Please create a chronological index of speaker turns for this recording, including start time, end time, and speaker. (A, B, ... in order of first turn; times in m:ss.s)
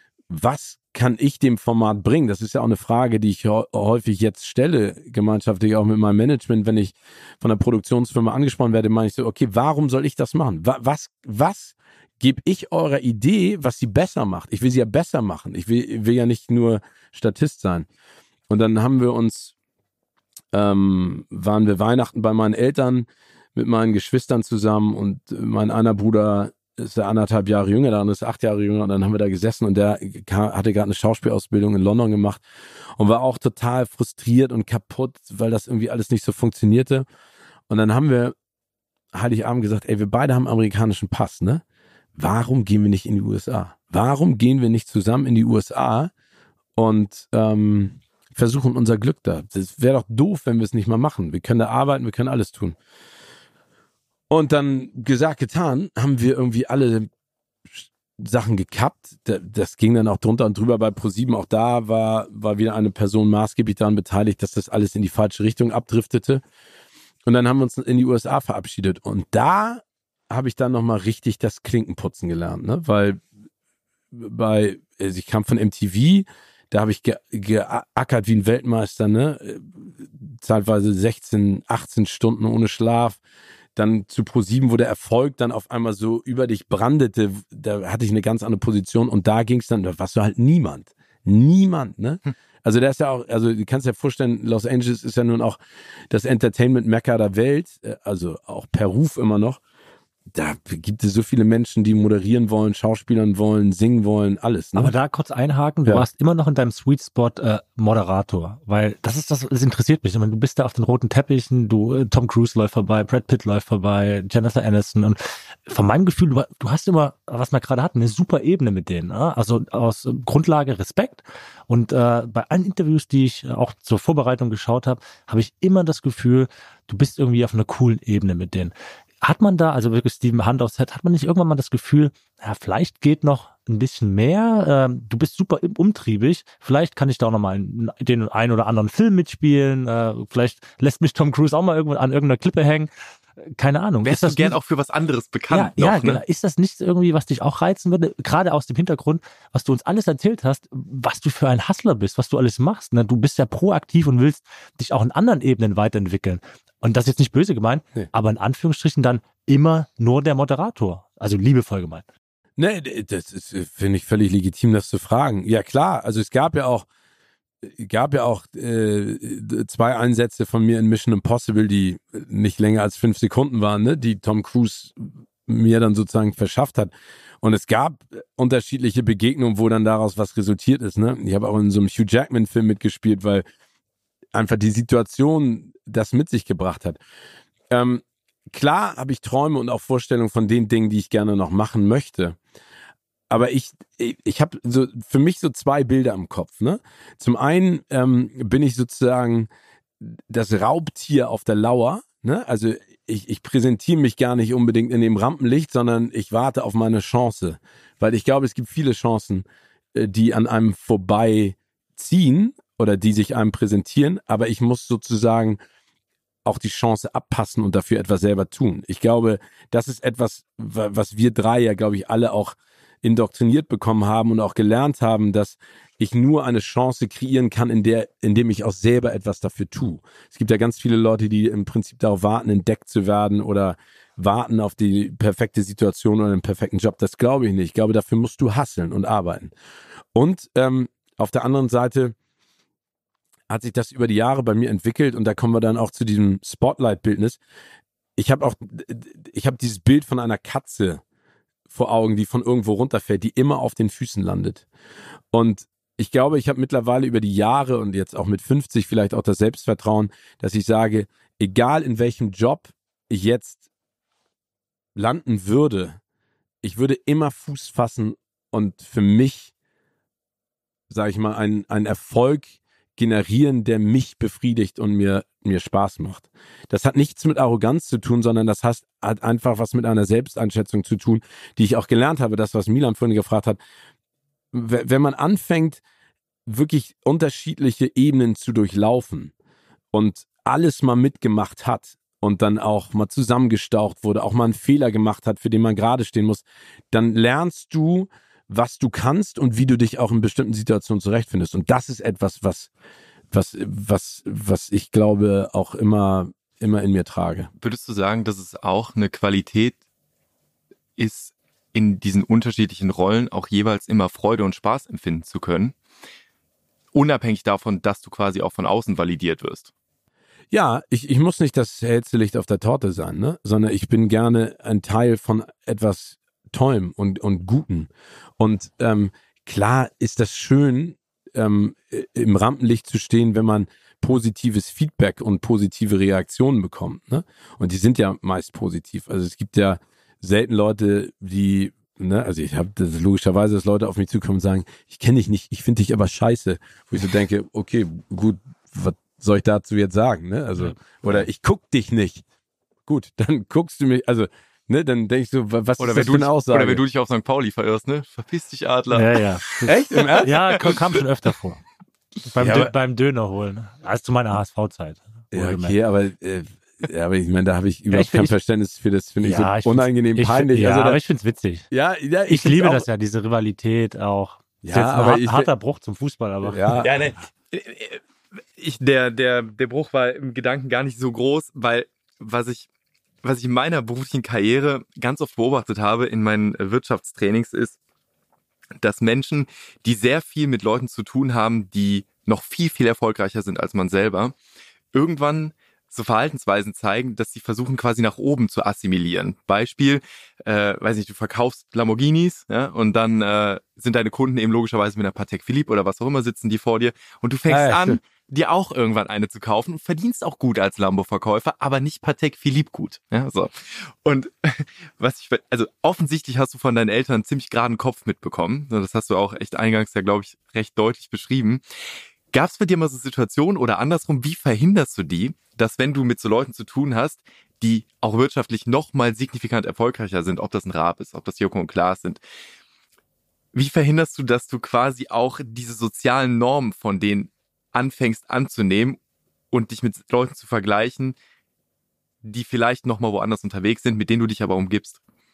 0:00.3-0:17.9 A
0:18.5-0:19.5 A
0:20.5-0:32.4 A
0:33.0-0:37.1 A
0:37.7-0:38.4 A
0:39.1-0:41.6 A
0:42.2-0:46.1 A
0:46.8-0:52.8 A
0:54.3-0:57.1 A
0:57.7-1:06.4 A
1:07.3-1:13.2 A
1:14.1-1:23.2 A
1:23.8-1:35.6 A
1:36.1-1:39.6 A
1:40.3-1:44.9 A
1:44.8-2:22.9 B
2:23.5-2:24.6 B
2:24.0-2:26.2 C
2:25.5-2:42.0 B
2:42.6-2:46.9 A
2:47.6-3:03.4 A
3:04.3-3:07.0 A
3:07.7-3:12.4 A
3:13.3-3:19.5 A
3:20.0-3:35.6 A
3:36.4-3:59.5 A
4:00.1-4:02.2 A
4:03.5-4:07.4 A
4:08.2-4:11.0 A
4:11.7-4:14.7 A
4:15.3-4:23.6 A
4:25.0-4:26.0 A
4:26.6-4:29.5 A
4:30.9-4:43.6 A
4:44.5-4:45.8 A
4:46.5-4:49.3 A
4:49.9-5:02.7 A
5:03.3-5:07.5 A
5:07.6-5:09.8 C
5:11.0-5:15.8 C
5:16.9-5:19.7 C
5:20.5-5:52.2 A
5:52.9-5:56.8 A
5:55.8-6:00.5 C
5:58.9-6:01.6 B
5:59.6-6:00.7 A
6:02.2-6:05.8 B
6:02.4-6:02.7 A
6:05.3-6:11.0 A
6:07.9-6:08.3 B
6:09.2-6:11.7 B
6:11.7-6:12.9 A
6:12.3-6:16.9 B
6:14.6-6:15.5 A
6:16.4-6:16.9 A
6:16.8-6:18.0 C
6:18.6-6:22.7 C
6:23.2-6:27.8 C
6:28.8-6:34.4 C
6:34.9-7:01.6 C
6:47.5-6:48.0 A
7:02.3-7:12.2 C
7:13.5-7:19.0 C
7:19.5-7:21.2 C
7:22.2-7:25.0 C